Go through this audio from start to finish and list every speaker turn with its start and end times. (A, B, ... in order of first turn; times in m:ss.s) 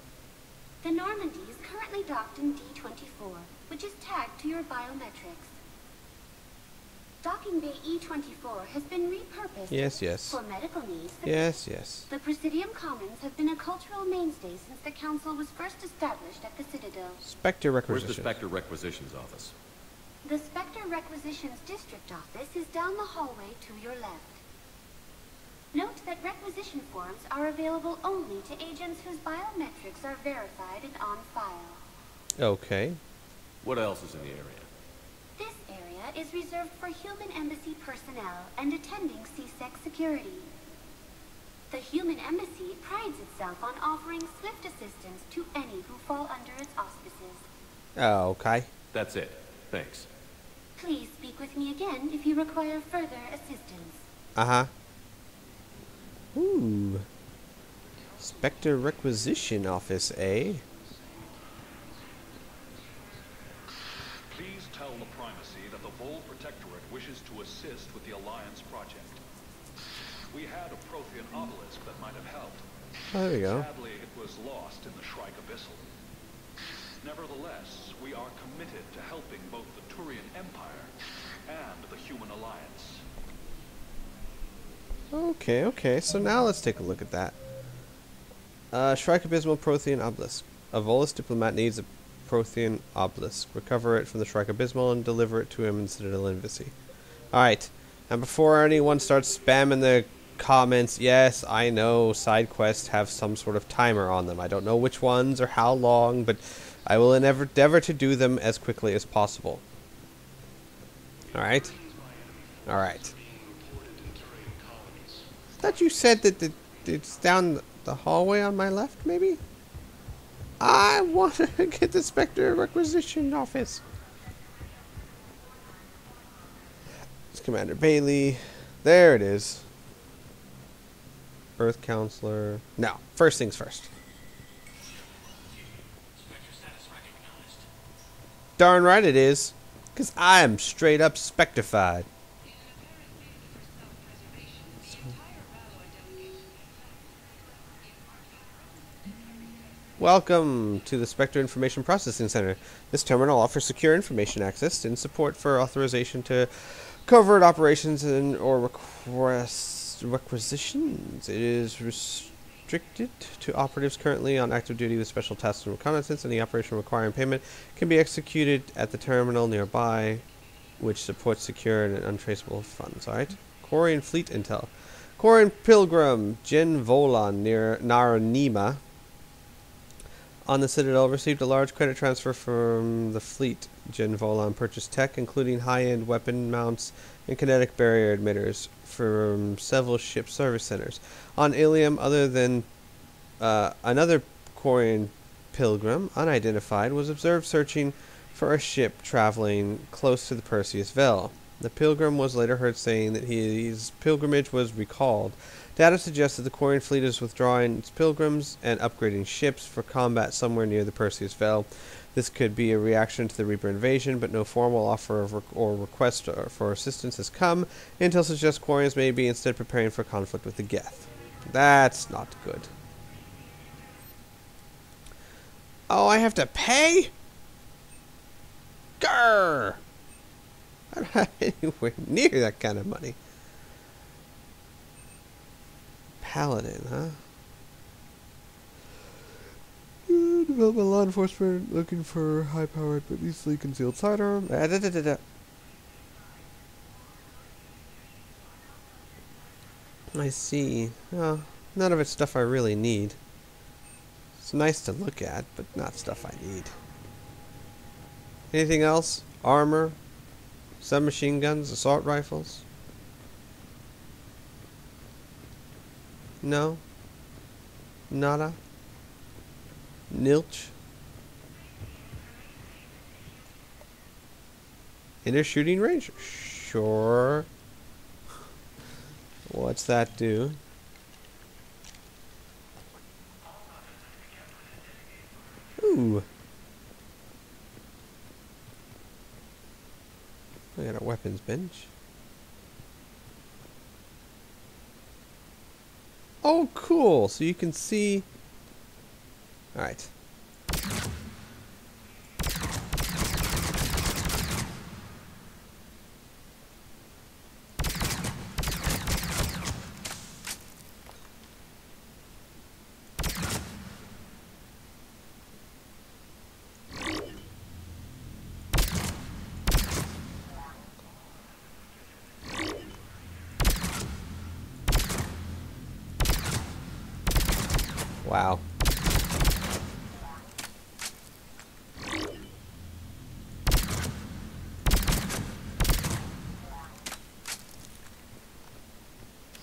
0:00.8-0:05.6 A
0:07.2-0:11.5 A
0:09.7-0:10.4 B
0:11.2-0:12.1 B
0:12.1-0:17.2 A
0:17.2-0:18.3 B
0:17.9-0:19.5 C
0:20.2-0:24.4 A
0:25.7-0:31.8 A
0:32.4-0:33.0 B
0:33.6-0:34.7 C
0:35.4-0:40.5 A
0:41.7-0:47.4 A
0:48.0-0:48.7 B
0:48.9-0:50.1 C
0:50.8-0:54.0 A
0:54.3-0:54.7 B
0:56.3-0:57.0 B
0:58.2-1:00.6 B
1:04.3-1:09.2 D
1:10.3-1:12.6 D
1:13.1-1:13.6 B
1:13.3-1:15.8 D
1:17.0-1:20.9 D
1:21.5-1:23.0 D
1:25.1-1:27.3 B
1:28.7-1:36.7 B
1:37.3-1:49.6 B
1:51.3-1:51.7 B
1:52.6-1:53.1 B
1:55.6-1:59.4 B
2:00.6-2:03.8 B
2:07.3-2:09.6 B
2:11.6-2:13.9 B
2:18.6-2:22.0 B
2:30.0-2:50.2 B
2:50.8-2:58.8 B
3:00.4-3:12.7 B
3:13.4-3:42.7 B
3:45.9-3:47.1 B
3:49.0-3:49.8 B
3:50.9-3:53.2 B
3:56.2-3:57.2 B
4:00.1-4:05.2 B
4:10.1-4:13.2 B
4:14.4-4:16.7 B
4:18.5-4:20.0 B
4:20.8-4:22.6 B
4:26.4-4:26.8 B
4:28.1-4:28.6 B
4:30.1-4:30.7 B
4:35.2-4:37.5 B
4:39.5-4:40.6 B
4:45.8-4:46.2 B
4:50.8-4:51.9 B
4:56.4-4:58.2 B
4:59.7-5:00.1 B
5:28.2-5:28.6 B